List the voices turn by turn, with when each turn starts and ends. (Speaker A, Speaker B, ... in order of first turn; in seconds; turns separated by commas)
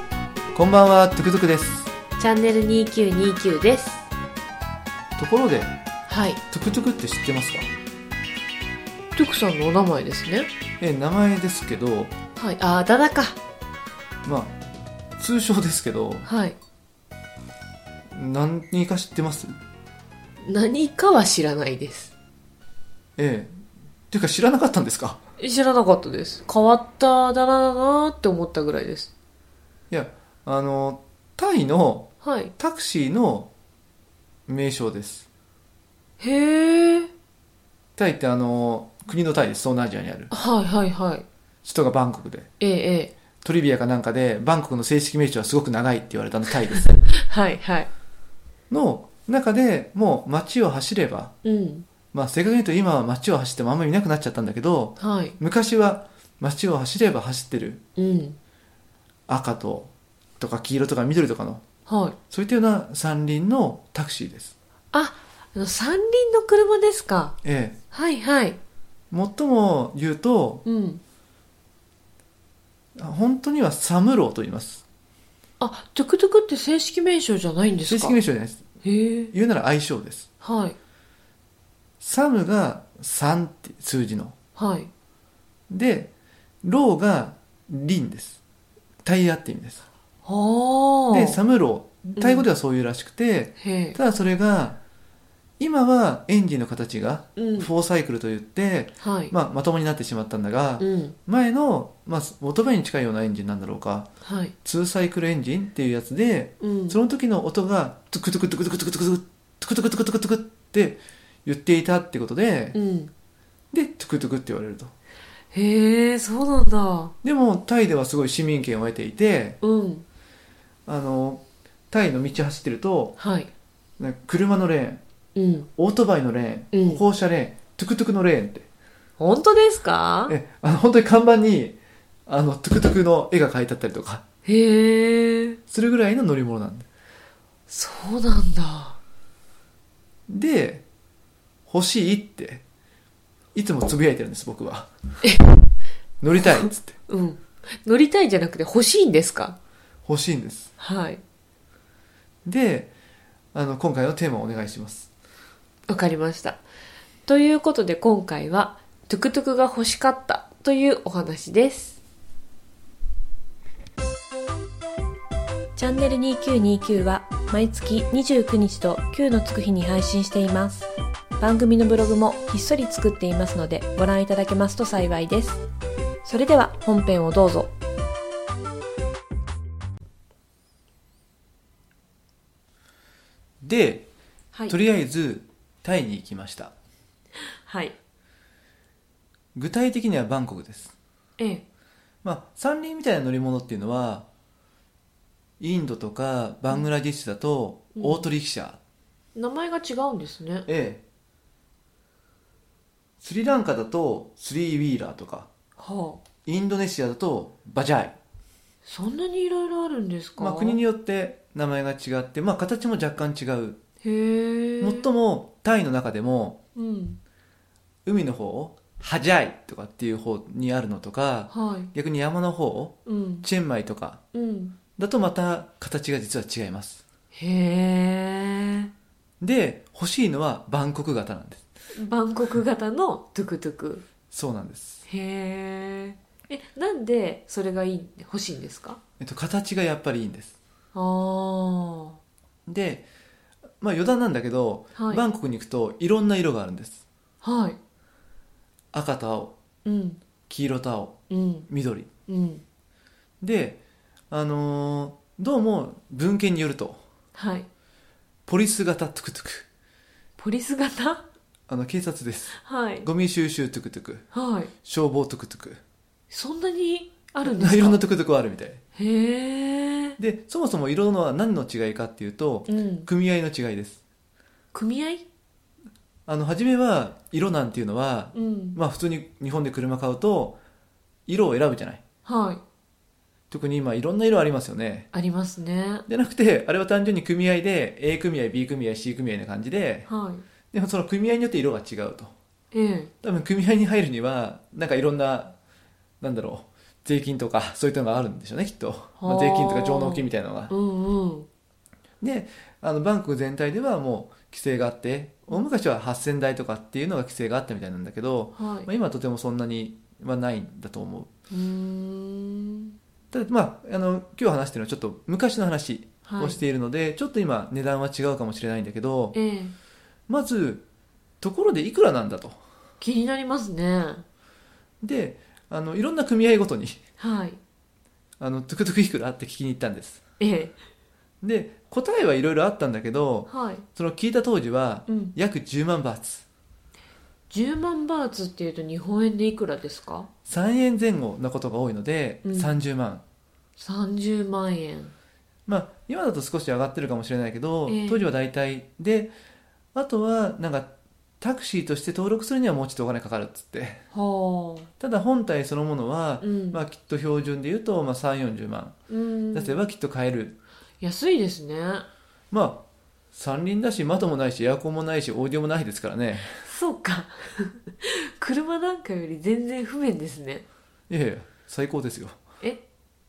Speaker A: 0.5-1.9, Speaker B: 2.2-4.1, Speaker A: 5.2-5.7, Speaker B: 6.1-6.4, Speaker A: 6.5-7.7, Speaker B: 9.2-10.5, Speaker A: 10.8-12.1, Speaker B: 12.4-13.4, Speaker A: 14.2-14.6, Speaker A: 15.2-16.3, Speaker B: 16.2-16.6, Speaker A: 18.1-19.6, Speaker B: 20.4-22.1, Speaker A: 23.2-25.2, Speaker B: 25.4-29.1, Speaker A: 29.9-33.5, Speaker B: 32.2-32.5, Speaker A: 34.5-35.3, Speaker B: 36.2-37.1, Speaker A: 38.0-40.3, Speaker B: 40.3-41.2, Speaker A: 41.6-42.5, Speaker B: 42.6-43.1, Speaker A: 43.4-47.1, Speaker B: 47.2-47.9, Speaker A: 48.7-51.3, Speaker B: 51.4-51.9, Speaker A: 52.1-57.8, Speaker B: 55.0-55.4, Speaker B: 58.0-58.4, Speaker A: 59.3-61.6, Speaker B: 61.9-62.2, Speaker A: 62.3-64.5, Speaker B: 64.9-67.4, Speaker A: 67.4-67.8, Speaker B: 67.9-68.6, Speaker A: 69.1-70.6, Speaker B: 70.7-71.0, Speaker A: 73.0-74.8, Speaker B: 75.6-78.2, Speaker A: 77.8-78.6, Speaker B: 78.8-79.3, Speaker A: 79.3-80.3, Speaker B: 80.4-80.8, Speaker A: 82.0-84.3, Speaker B: 84.6-84.9, Speaker A: 85.7-86.1, Speaker A: 86.6-88.4, Speaker A: 89.0-89.8, Speaker B: 90.2-91.4, Speaker A: 91.1-94.8, Speaker B: 92.2-92.5, Speaker B: 93.6-94.0, Speaker A: 95.6-104.1, Speaker B: 97.4-97.7, Speaker B: 99.0-99.3, Speaker B: 100.8-101.2, Speaker B: 104.2-104.5, Speaker A: 104.7-112.8, Speaker B: 106.6-107.0, Speaker B: 112.7-113.1, Speaker A: 113.7-114.9, Speaker B: 115.5-117.1, Speaker A: 117.2-119.6, Speaker B: 119.6-120.1, Speaker A: 120.9-123.2, Speaker B: 123.2-123.5, Speaker A: 124.0-125.0, Speaker B: 125.3-125.7, Speaker A: 125.8-128.7, Speaker B: 126.7-127.0, Speaker B: 129.2-130.4, Speaker A: 130.3-134.2, Speaker B: 134.4-135.6, Speaker A: 135.7-136.9, Speaker B: 137.7-139.0, Speaker A: 140.3-140.8, Speaker A: 141.7-142.6, Speaker A: 143.6-144.9, Speaker A: 146.2-147.0, Speaker B: 146.3-149.6, Speaker A: 150.1-150.7, Speaker B: 150.8-151.2, Speaker A: 152.5-152.9, Speaker A: 153.5-155.1, Speaker B: 155.9-156.6, Speaker B: 157.3-162.0, Speaker C: 165.8-170.9, Speaker C: 171.4-175.6, Speaker C: 176.3-177.7, Speaker A: 183.6-184.1, Speaker A: 184.7-186.7, Speaker B: 187.6-188.0, Speaker A: 189.6-190.9, Speaker B: 191.4-191.7, Speaker A: 192.2-194.3, Speaker A: 195.6-198.8, Speaker B: 198.0-198.3, Speaker B: 199.3-200.7, Speaker A: 200.7-201.0, Speaker A: 203.2-205.5, Speaker B: 205.8-206.2, Speaker A: 206.5-208.2, Speaker B: 208.9-210.8, Speaker A: 210.4-213.8, Speaker B: 214.0-215.1, Speaker A: 214.8-216.6, Speaker B: 216.8-217.2, Speaker A: 218.1-224.2, Speaker B: 221.5-221.9, Speaker B: 223.1-223.5, Speaker B: 224.3-224.8, Speaker A: 225.0-227.0, Speaker B: 227.3-228.9, Speaker A: 229.4-231.7, Speaker B: 231.9-234.1, Speaker A: 234.3-235.0, Speaker B: 235.1-239.0, Speaker A: 239.2-240.6, Speaker B: 240.9-242.2, Speaker A: 242.7-243.1, Speaker A: 243.8-247.0, Speaker B: 245.0-245.2, Speaker B: 247.4-247.8, Speaker A: 248.9-249.6, Speaker B: 249.8-250.2, Speaker A: 250.5-252.1, Speaker B: 251.3-251.7, Speaker B: 252.3-252.6, Speaker A: 253.4-253.8, Speaker A: 254.3-257.0, Speaker B: 257.4-257.7, Speaker A: 258.5-259.7, Speaker B: 260.4-261.3, Speaker A: 261.7-264.3, Speaker B: 262.5-263.1, Speaker B: 264.3-264.7, Speaker A: 264.8-265.8, Speaker B: 266.3-268.0, Speaker A: 267.4-268.8, Speaker B: 268.9-270.2, Speaker A: 270.2-274.0, Speaker B: 272.7-273.1, Speaker B: 274.7-275.2, Speaker A: 276.3-280.6, Speaker B: 278.3-278.8, Speaker A: 281.3-282.0, Speaker B: 282.2-282.6, Speaker A: 283.5-285.1, Speaker B: 285.1-286.1, Speaker A: 286.1-290.1, Speaker B: 290.1-290.4, Speaker A: 290.7-292.3, Speaker B: 292.7-293.1, Speaker A: 293.2-295.6, Speaker A: 296.2-300.7, Speaker B: 299.2-301.5, Speaker A: 302.2-311.3, Speaker B: 308.6-308.9, Speaker B: 311.5-312.9, Speaker A: 313.3-319.4, Speaker B: 316.3-316.6, Speaker B: 319.3-319.8, Speaker A: 320.3-320.8, Speaker A: 321.4-322.6, Speaker B: 323.0-324.2, Speaker A: 325.0-327.0, Speaker B: 327.2-327.6, Speaker A: 328.4-330.2, Speaker B: 330.4-330.8, Speaker A: 331.4-336.4, Speaker B: 333.5-333.9, Speaker B: 335.1-335.4, Speaker B: 337.5-340.3, Speaker A: 340.5-343.2, Speaker B: 342.4-342.8, Speaker B: 343.8-345.1, Speaker A: 345.7-349.3, Speaker B: 347.9-348.3, Speaker A: 349.9-354.0, Speaker B: 354.1-354.9, Speaker A: 355.0-359.0, Speaker B: 356.4-356.8, Speaker B: 359.1-359.8, Speaker A: 359.5-360.6, Speaker B: 361.0-362.1, Speaker A: 362.5-366.6, Speaker B: 366.5-370.7, Speaker A: 371.1-372.4